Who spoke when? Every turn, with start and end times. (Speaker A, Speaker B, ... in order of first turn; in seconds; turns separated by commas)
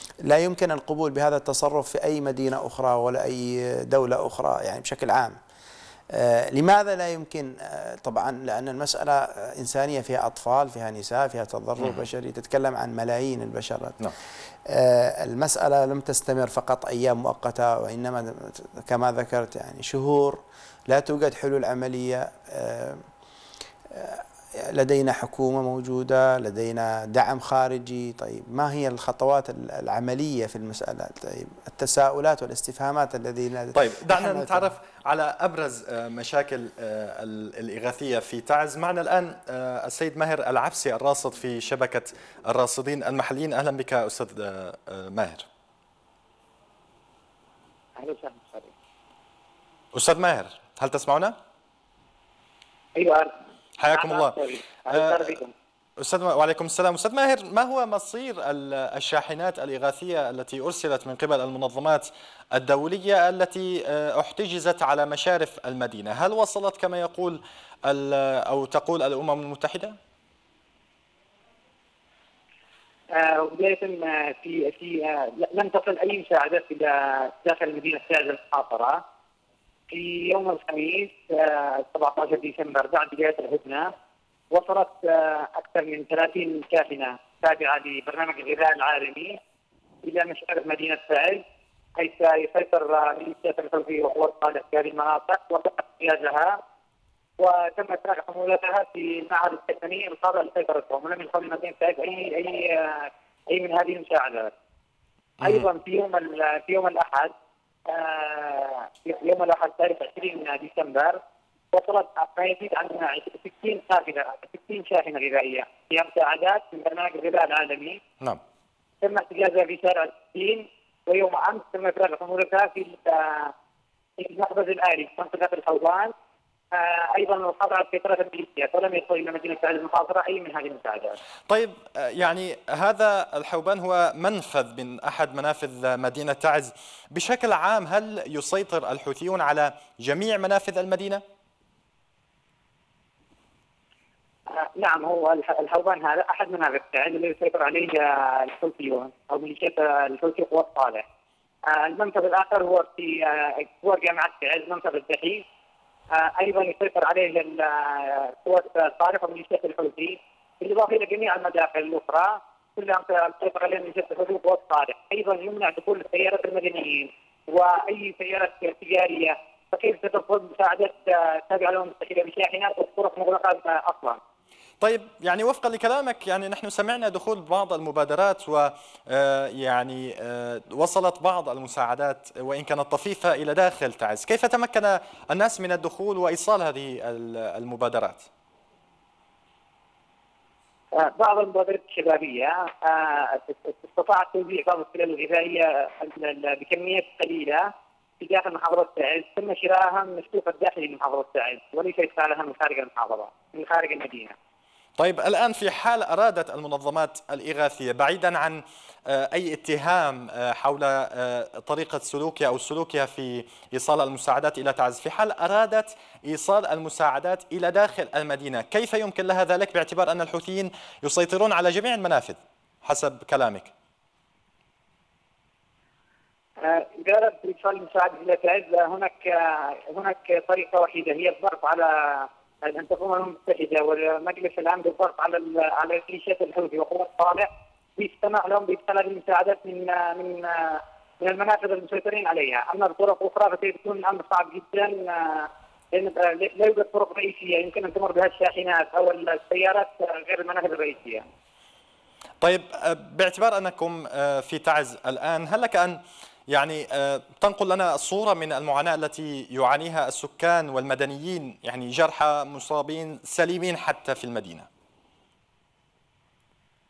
Speaker A: 0.2-5.4, Speaker A: 6.1-14.1, Speaker A: 14.7-23.0, Speaker A: 23.9-34.7, Speaker B: 33.7-45.5, Speaker C: 48.0-48.7, Speaker B: 49.9-51.4, Speaker C: 53.0-53.4, Speaker B: 53.8-54.4, Speaker C: 53.9-55.5, Speaker B: 54.9-55.4, Speaker B: 56.0-70.0, Speaker C: 73.1-79.0, Speaker C: 79.9-83.9, Speaker C: 84.5-89.4, Speaker C: 90.0-91.4, Speaker C: 92.0-96.6, Speaker C: 97.4-104.5, Speaker C: 105.4-107.3, Speaker C: 107.9-111.2, Speaker C: 111.7-118.0, Speaker C: 119.0-123.5, Speaker C: 124.2-126.1, Speaker C: 126.7-131.2, Speaker B: 131.5-141.2, Speaker C: 144.6-151.1, Speaker C: 151.7-155.4, Speaker C: 156.1-174.2, Speaker B: 174.8-188.3, Speaker C: 190.9-204.3, Speaker B: 205.0-223.7, Speaker C: 226.6-251.2, Speaker B: 252.4-264.7